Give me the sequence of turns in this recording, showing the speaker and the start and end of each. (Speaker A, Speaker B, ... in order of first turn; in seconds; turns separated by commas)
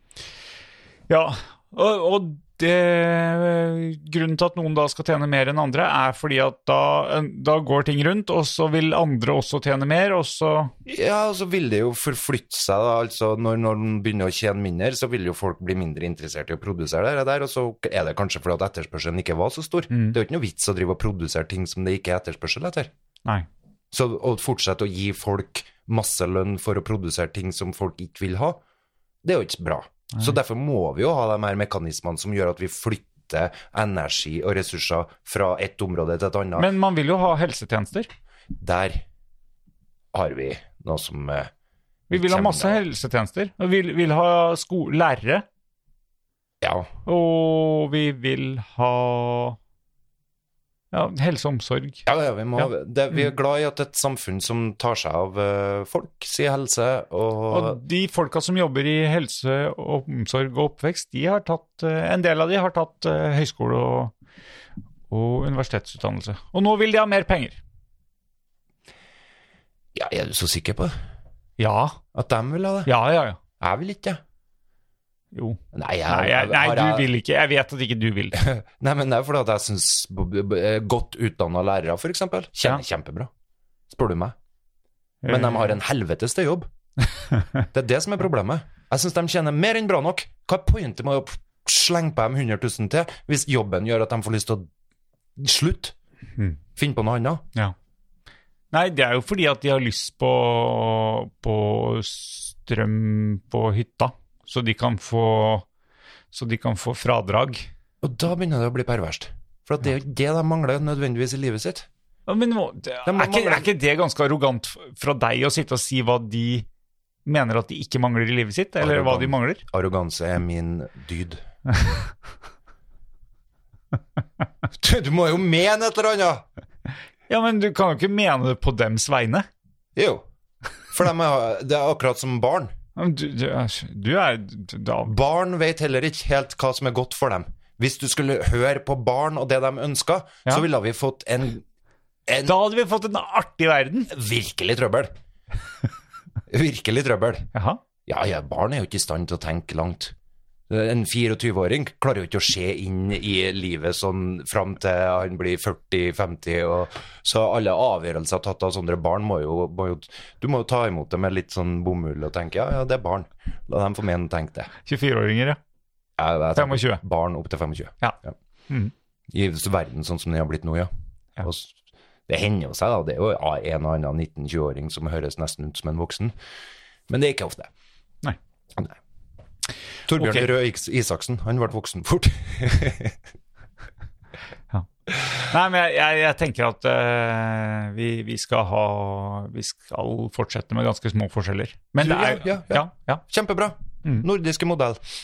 Speaker A: 1.1-10.7, Speaker B: 10.9-22.9, Speaker A: 19.9-20.2, Speaker B: 23.9-28.6, Speaker B: 29.2-36.7, Speaker A: 36.6-38.1, Speaker B: 38.5-39.0, Speaker B: 40.1-41.5, Speaker A: 42.1-45.5, Speaker B: 42.1-42.8, Speaker B: 46.6-46.9, Speaker A: 47.1-49.6, Speaker A: 50.9-52.0, Speaker B: 52.1-57.8, Speaker A: 57.5-64.1, Speaker A: 65.1-67.6, Speaker B: 70.0-70.9, Speaker A: 71.6-72.0, Speaker B: 72.1-72.9, Speaker A: 72.9-73.4, Speaker B: 73.6-74.2, Speaker A: 75.3-78.4, Speaker B: 75.7-77.1, Speaker B: 78.3-83.3, Speaker B: 83.9-84.3, Speaker A: 85.2-85.7, Speaker B: 85.3-86.7, Speaker A: 87.3-87.6, Speaker B: 87.7-94.7, Speaker B: 95.4-96.0, Speaker B: 96.8-97.4, Speaker A: 98.7-105.7, Speaker A: 106.3-107.7, Speaker B: 108.0-111.9, Speaker A: 112.3-116.7, Speaker B: 113.1-113.7, Speaker A: 117.2-119.6, Speaker B: 118.8-121.4, Speaker A: 121.7-122.1, Speaker B: 124.8-126.5, Speaker A: 127.3-129.5, Speaker B: 130.0-130.2, Speaker B: 130.9-132.7, Speaker A: 133.0-135.1, Speaker B: 135.1-141.6, Speaker B: 142.3-142.6, Speaker A: 142.4-144.1, Speaker B: 144.1-145.1, Speaker B: 146.5-147.5, Speaker A: 147.5-147.8, Speaker B: 148.1-150.2, Speaker B: 150.7-164.7, Speaker A: 164.8-165.6, Speaker B: 166.2-168.3, Speaker A: 166.6-167.0, Speaker B: 169.3-170.9, Speaker B: 171.4-171.8, Speaker B: 172.3-176.3, Speaker B: 177.1-177.7, Speaker B: 180.1-183.2, Speaker A: 180.2-180.5, Speaker A: 184.7-193.2, Speaker B: 192.0-195.0